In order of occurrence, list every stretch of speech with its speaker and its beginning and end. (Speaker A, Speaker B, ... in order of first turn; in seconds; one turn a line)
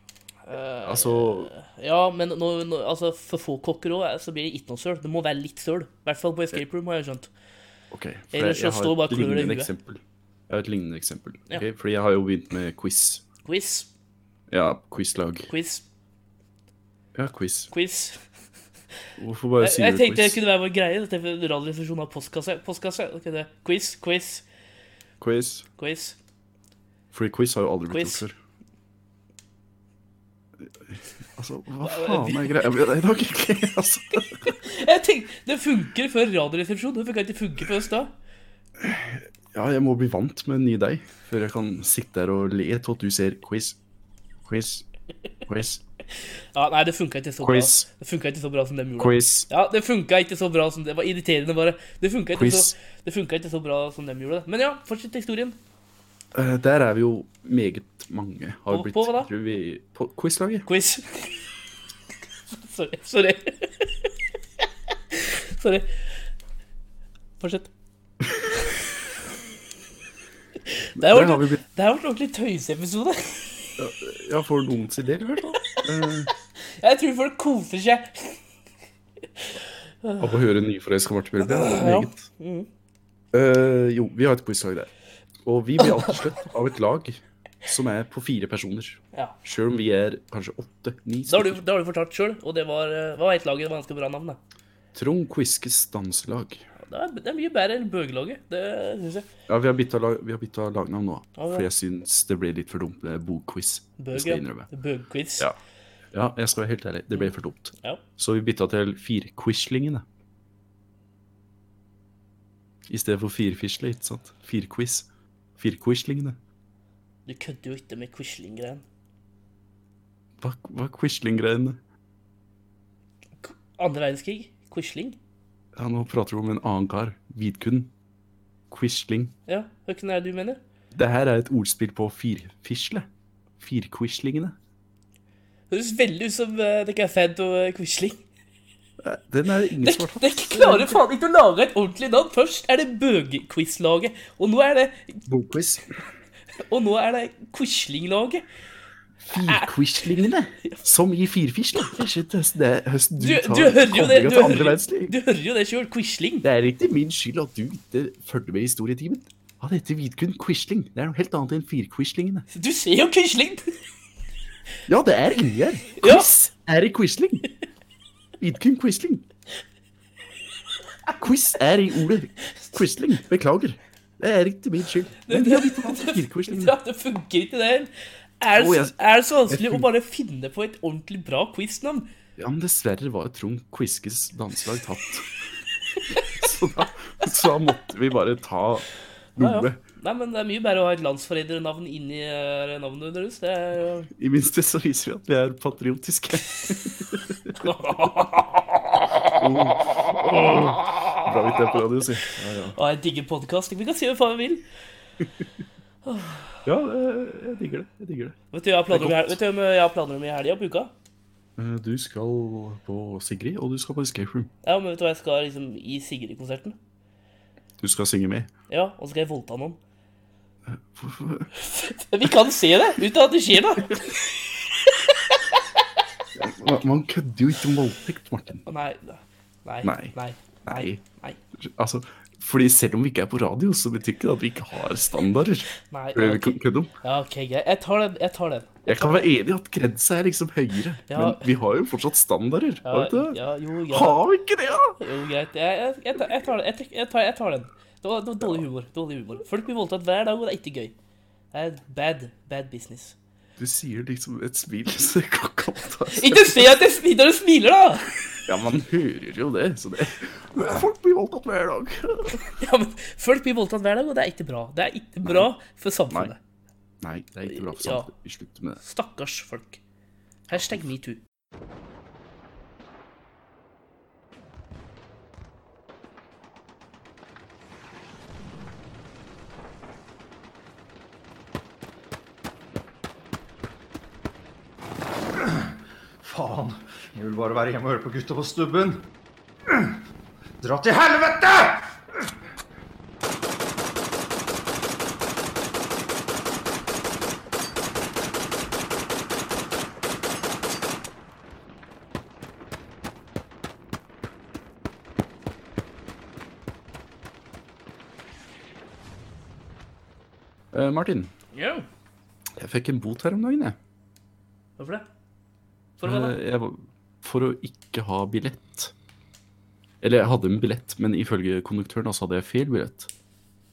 Speaker A: 0.5-7.3
Speaker B: 0.8-1.5
Speaker B: 7.9-13.2
Speaker A: 8.3-9.7
Speaker A: 13.4-13.9
Speaker B: 14.5-15.5
Speaker A: 15.5-15.8
Speaker B: 17.1-17.7
Speaker A: 17.7-18.2
Speaker B: 19.2-20.4
Speaker A: 19.6-24.4
Speaker B: 25.2-25.7
Speaker A: 25.8-26.2
Speaker B: 27.1-28.4
Speaker A: 27.9-28.2
Speaker B: 30.8-34.5
Speaker A: 31.8-32.6
Speaker A: 34.5-38.1
Speaker B: 38.8-43.8
Speaker B: 44.5-44.9
Speaker B: 45.5-45.8
Speaker A: 46.5-55.6
Speaker B: 47.4-47.9
Speaker B: 49.0-49.5
Speaker B: 52.3-52.8
Speaker B: 56.3-60.7
Speaker A: 58.7-59.3
Speaker A: 60.7-61.4
Speaker A: 62.5-64.1
Speaker A: 65.1-65.9
Speaker A: 67.4-67.7
Speaker A: 70.7-73.7
Speaker B: 71.0-71.6
Speaker B: 73.8-76.3
Speaker A: 75.5-75.8
Speaker A: 76.6-78.4
Speaker A: 79.4-80.3
Speaker B: 80.2-82.3
Speaker A: 81.4-82.7
Speaker B: 83.3-84.9
Speaker B: 85.4-91.6
Speaker A: 85.8-86.2
Speaker A: 91.3-94.4
Speaker B: 94.9-96.6
Speaker A: 96.8-99.3
Speaker B: 99.5-104.7
Speaker A: 101.4-101.7
Speaker A: 104.0-105.5
Speaker B: 106.1-110.0
Speaker A: 107.1-108.0
Speaker B: 112.9-115.1
Speaker B: 115.6-116.4
Speaker A: 117.3-118.8
Speaker B: 120.4-121.8
Speaker A: 123.4-125.2
Speaker B: 125.8-127.9
Speaker B: 128.7-129.3
Speaker A: 129.5-130.6
Speaker B: 130.9-133.1
Speaker B: 133.6-134.6
Speaker A: 135.7-138.2
Speaker B: 139.0-141.0
Speaker A: 139.8-145.2
Speaker B: 145.3-145.9
Speaker A: 146.6-148.4
Speaker B: 149.2-155.2
Speaker A: 149.5-149.7
Speaker A: 153.2-156.5
Speaker B: 156.4-162.5
Speaker A: 162.5-163.7
Speaker B: 164.9-167.5
Speaker A: 166.0-166.3
Speaker B: 168.4-169.2
Speaker B: 171.1-176.8
Speaker A: 175.2-182.1
Speaker B: 178.6-179.0
Speaker B: 179.5-179.9
Speaker B: 182.4-185.3
Speaker B: 186.3-189.8
Speaker A: 189.4-194.1
Speaker B: 194.2-197.9
Speaker A: 197.6-199.4
Speaker B: 199.4-202.8
Speaker A: 200.1-201.8
Speaker A: 202.8-204.6
Speaker A: 206.1-206.6
Speaker B: 206.7-208.4
Speaker A: 208.5-210.9
Speaker B: 208.9-209.4
Speaker B: 211.6-214.5
Speaker A: 214.6-216.8
Speaker B: 217.8-218.5
Speaker A: 218.7-219.8
Speaker B: 220.7-221.5
Speaker A: 221.6-224.2
Speaker A: 224.9-225.6
Speaker B: 226.3-228.6
Speaker A: 228.7-231.4
Speaker B: 229.8-231.0
Speaker B: 231.6-236.9
Speaker A: 235.8-239.3
Speaker B: 238.9-245.0
Speaker A: 241.1-241.5
Speaker A: 242.8-244.2
Speaker A: 245.0-250.9
Speaker A: 251.5-253.2
Speaker B: 253.6-256.8
Speaker A: 256.1-258.1
Speaker B: 258.4-262.5
Speaker A: 262.6-266.4
Speaker B: 267.0-268.8
Speaker A: 267.5-268.1
Speaker A: 268.8-269.8
Speaker A: 270.5-271.2
Speaker B: 270.5-270.8
Speaker C: 285.4-289.1
Speaker C: 289.7-290.0
Speaker C: 290.6-292.0
Speaker B: 310.7-311.3
Speaker A: 311.5-311.9
Speaker B: 312.6-313.8
Speaker A: 314.8-315.1
Speaker A: 316.0-316.4
Speaker B: 316.0-318.9
Speaker B: 320.0-323.1